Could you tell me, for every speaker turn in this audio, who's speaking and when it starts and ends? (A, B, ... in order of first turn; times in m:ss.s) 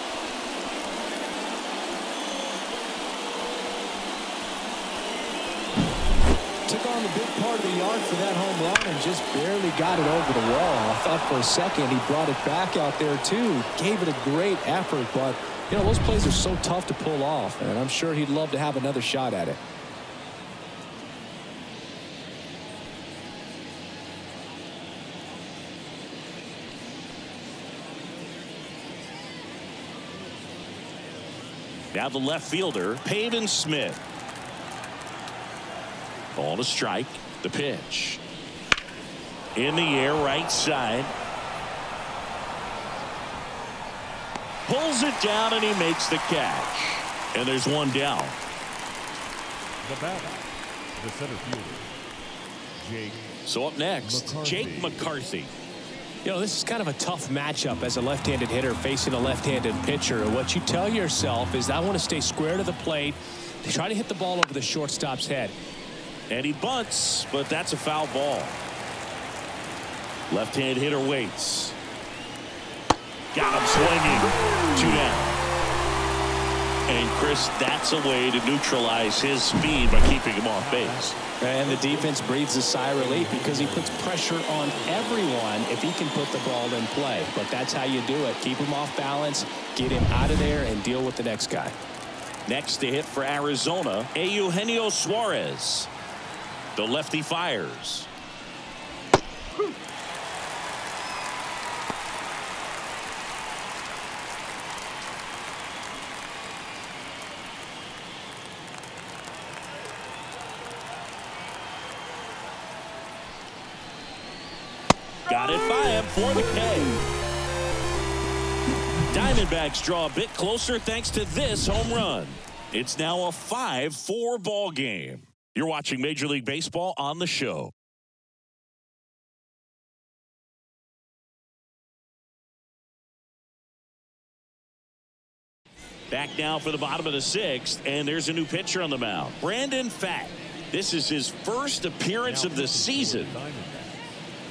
0:06.7-0:19.6 A
0:31.9-0:34.0 B
0:36.4-0:38.2 B
0:39.6-0:41.1 B
0:44.7-0:48.4 B
0:49.8-0:51.9 C
0:52.8-0:53.3 C
0:53.5-0:55.5 B
0:54.0-0:55.1 C
0:56.2-1:05.6 A
1:06.3-1:08.6 B
1:10.3-1:11.8 B
1:13.3-1:15.5 B
1:16.9-1:21.2 B
1:20.5-1:25.6 C
1:21.4-1:31.8 A
1:32.5-1:35.9 B
1:36.8-1:38.1 B
1:55.3-1:57.0 B
1:59.1-2:07.7 B
2:16.1-2:23.4 B
2:22.2-2:24.1 C